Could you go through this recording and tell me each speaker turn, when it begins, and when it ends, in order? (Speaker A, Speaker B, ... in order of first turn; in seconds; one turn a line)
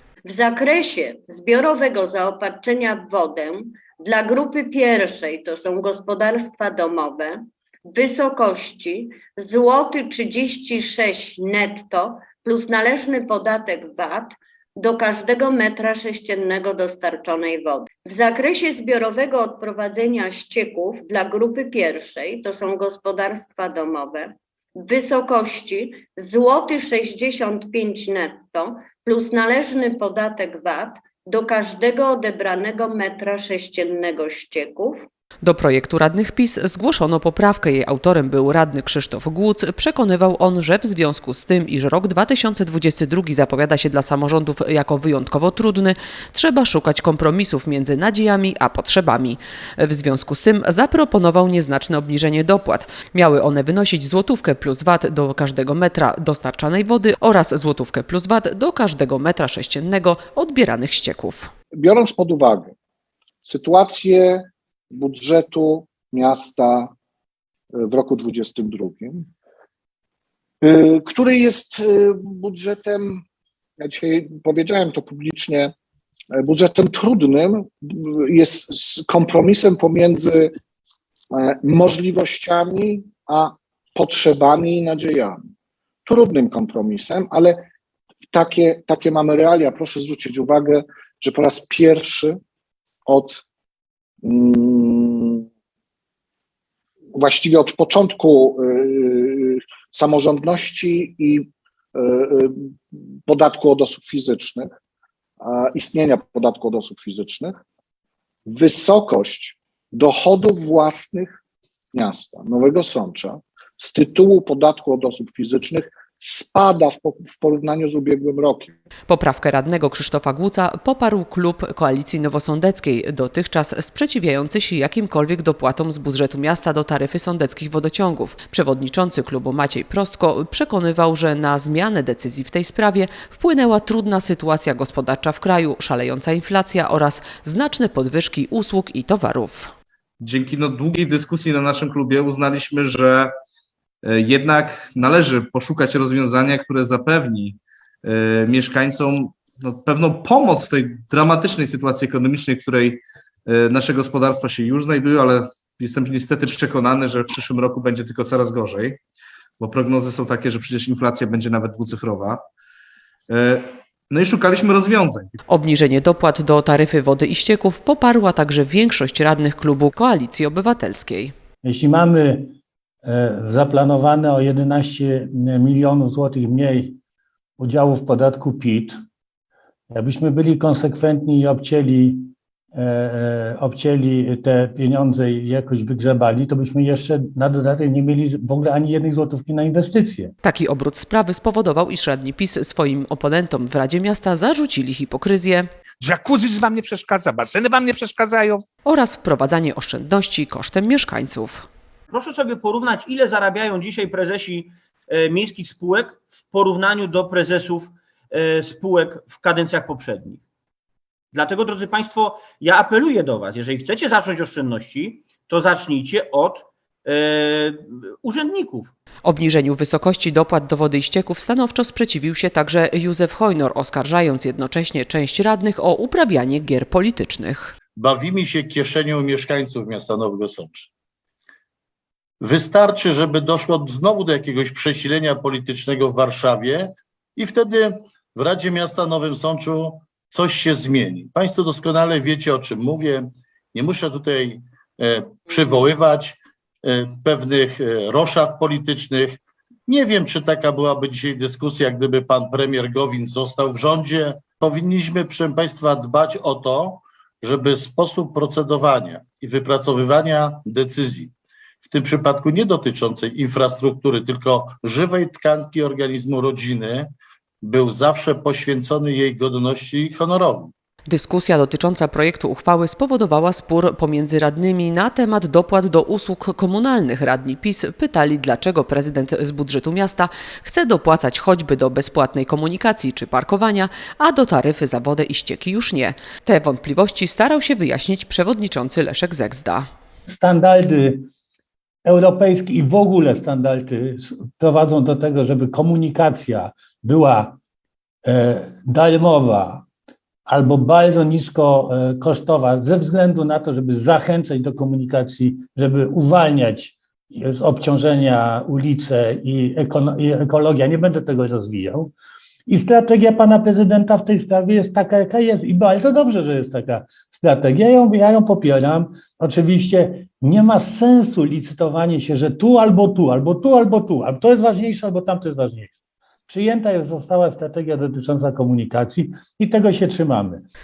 Speaker A: 0.2-35.0
Speaker B: 35.4-61.5
Speaker C: 61.8-62.7
Speaker C: 63.5-66.9
Speaker C: 67.7-69.3
Speaker C: 70.6-73.2
Speaker C: 73.8-75.7
Speaker C: 76.3-80.5
Speaker C: 81.3-85.4
Speaker C: 86.1-87.7
Speaker C: 88.3-92.4
Speaker C: 93.1-93.4
Speaker C: 94.2-95.4
Speaker C: 97.2-104.7
Speaker C: 105.4-107.6
Speaker C: 108.5-111.4
Speaker C: 111.9-118.7
Speaker B: 119.1-139.7
Speaker D: 140.2-143.3
Speaker D: 144.0-159.0
Speaker D: 159.6-162.4
Speaker D: 163.3-165.4
Speaker B: 165.5-171.3
Speaker E: 171.6-172.5
Speaker E: 173.1-177.0
Speaker E: 177.6-178.9
Speaker E: 179.9-190.3
Speaker B: 190.4-195.7
Speaker F: 196.0-198.6
Speaker B: 198.8-201.7
Speaker G: 202.1-210.4
Speaker G: 211.3-218.9
Speaker B: 219.2-227.7
Speaker H: 228.0-230.9
Speaker H: 232.4-270.7
Speaker B: 271.1-289.9
Speaker E: 290.3-291.3
Speaker E: 292.1-297.6
Speaker E: 298.2-299.8
Speaker E: 300.5-312.1
Speaker E: 312.7-325.9
Speaker E: 326.5-330.6